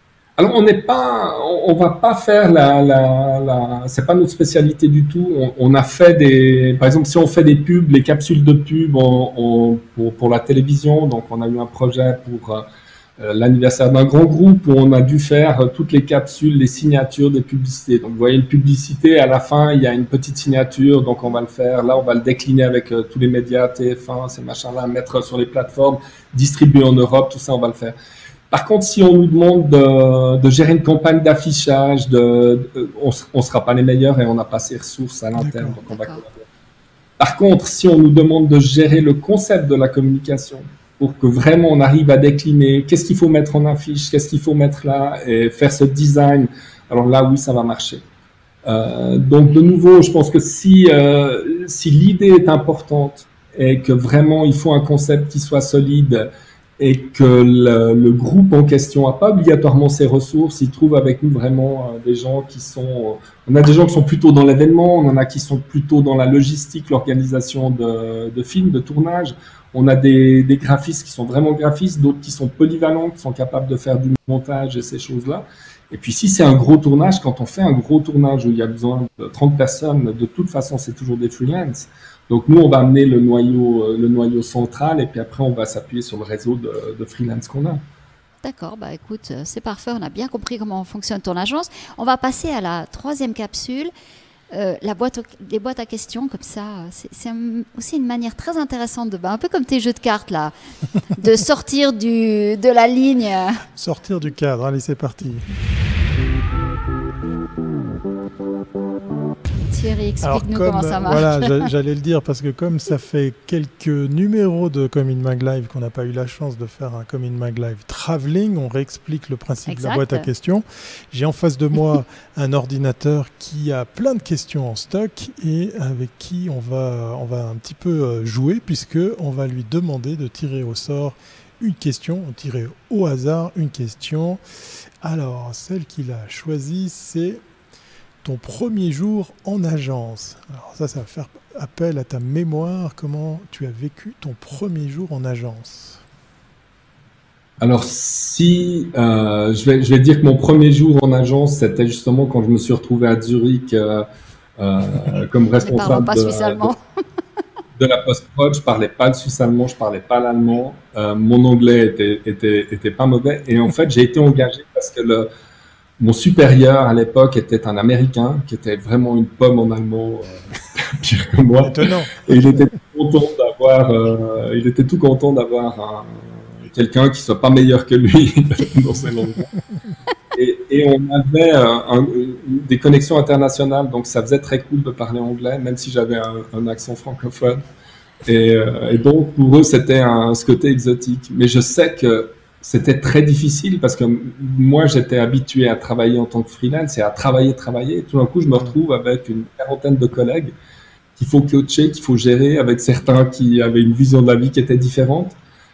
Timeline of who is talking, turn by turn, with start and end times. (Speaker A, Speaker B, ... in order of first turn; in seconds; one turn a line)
Speaker A: 0.4-12.7
Speaker A: 13.2-27.9
Speaker A: 28.5-36.3
Speaker B: 35.4-35.8
Speaker C: 35.9-36.2
Speaker A: 37.2-48.0
Speaker A: 48.6-56.3
Speaker A: 56.8-87.8
Speaker C: 88.4-93.9
Speaker C: 94.5-100.5
Speaker C: 101.2-103.6
Speaker B: 103.8-105.5
Speaker C: 109.7-111.7
Speaker B: 110.2-134.4
Speaker C: 119.7-120.3
Speaker B: 135.0-137.4
Speaker B: 138.2-146.0
Speaker A: 147.6-154.0
Speaker A: 154.6-156.7
Speaker C: 155.6-156.8
Speaker A: 157.8-165.3
Speaker A: 166.0-179.5
Speaker B: 171.6-172.7
Speaker A: 180.3-187.6
Speaker A: 188.2-200.5
Speaker A: 201.2-205.4